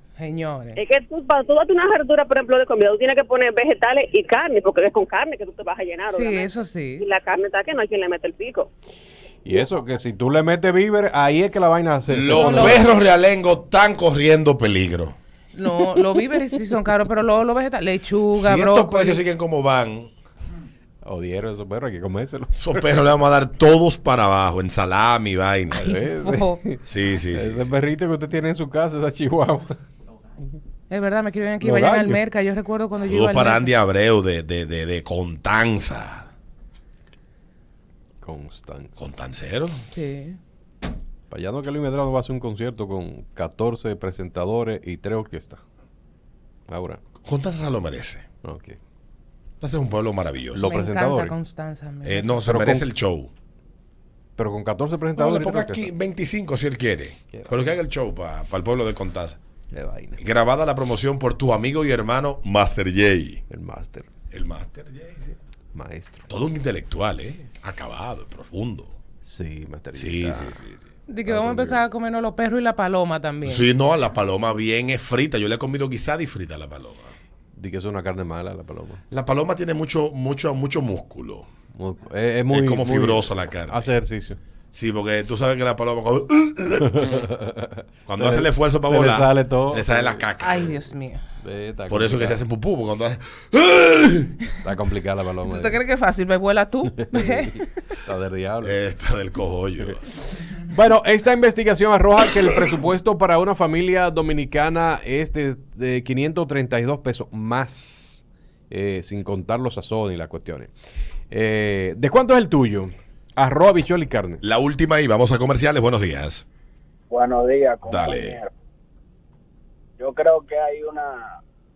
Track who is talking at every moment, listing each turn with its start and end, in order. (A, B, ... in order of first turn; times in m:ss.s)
0:00.2-0:00.8 A
0:00.8-0:08.7 B
0:06.0-0:07.0 A
0:09.4-0:12.8 C
0:12.1-0:15.2 D
0:12.3-0:12.8 A
0:15.5-0:19.2 A
0:18.3-0:20.1 D
0:21.0-0:22.9 C
0:22.5-0:25.8 D
0:25.8-0:26.6 A
0:25.8-0:29.8 C
0:26.8-0:27.7 D
0:30.9-0:33.8 A
0:31.6-0:32.2 C
0:33.1-0:36.3 D
0:38.2-0:39.0 C
0:39.0-0:39.8 D
0:39.9-0:40.4 A
0:41.3-0:45.6 C
0:46.7-0:47.0 C
0:47.2-0:48.2 D
0:48.4-0:48.8 C
0:49.6-0:50.8 D
0:50.5-0:51.3 C
0:50.6-0:52.5 A
0:52.0-0:53.3 D
0:52.4-0:52.9 C
0:54.4-0:55.9 C
0:55.2-0:59.4 D
0:59.7-1:00.2 C
1:00.2-1:03.4 D
1:03.5-1:04.1 C
1:04.3-1:05.4 D
1:05.7-1:06.3 C
1:06.3-1:08.9 D
1:09.2-1:10.6 C
1:10.0-1:10.8 D
1:11.1-1:13.7 A
1:11.3-1:11.8 C
1:13.4-1:17.1 D
1:17.5-1:19.0 C
1:19.1-1:21.5 D
1:21.7-1:24.4 C
1:22.5-1:23.9 D
1:24.7-1:27.0 D
1:27.0-1:30.2 C
1:28.0-1:30.8 D
1:30.4-1:31.2 A
1:31.4-1:32.4 C
1:31.9-1:34.3 D
1:34.6-1:35.8 C
1:35.4-1:37.7 A
1:36.9-1:37.5 C
1:38.0-1:38.8 C
1:38.6-1:40.0 D
1:40.7-1:50.7 C
1:51.3-1:54.4 C
1:54.4-1:56.4 D
1:57.1-1:58.5 E
1:57.8-1:58.4 D
2:00.0-2:01.4 E